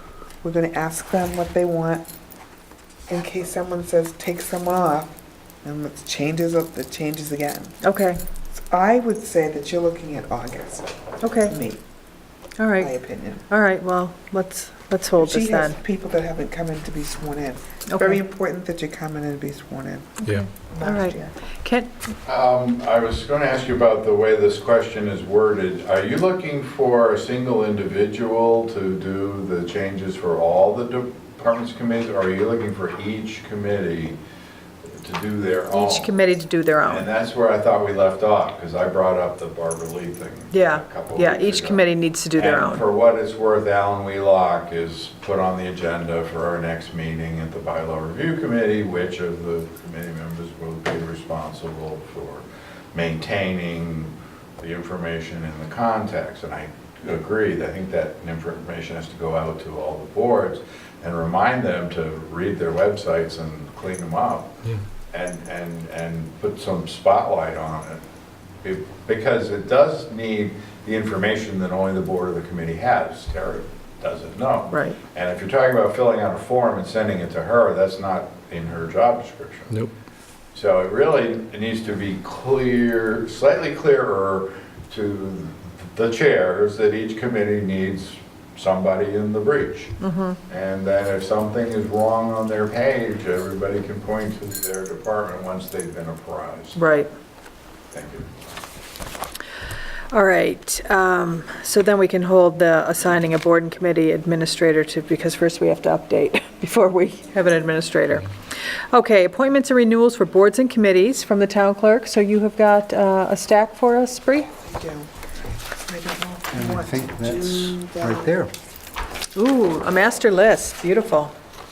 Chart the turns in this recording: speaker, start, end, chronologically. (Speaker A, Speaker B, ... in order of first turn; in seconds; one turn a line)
Speaker A: 0.4-2.0
Speaker A: 3.1-7.8
Speaker B: 7.8-8.2
Speaker A: 8.5-11.8
Speaker B: 11.2-11.5
Speaker B: 12.6-12.9
Speaker A: 12.8-13.4
Speaker B: 13.5-15.8
Speaker A: 15.2-21.3
Speaker B: 17.9-18.2
Speaker B: 20.2-21.9
Speaker C: 22.2-34.2
Speaker C: 34.8-68.0
Speaker B: 35.7-37.0
Speaker B: 40.5-42.8
Speaker C: 68.6-79.8
Speaker B: 74.7-75.0
Speaker C: 80.5-89.9
Speaker B: 90.0-90.4
Speaker C: 90.5-96.8
Speaker B: 96.8-97.1
Speaker C: 97.9-98.3
Speaker B: 100.1-108.3
Speaker B: 108.9-114.5
Speaker A: 114.5-118.3
Speaker D: 116.5-118.5
Speaker B: 119.3-121.3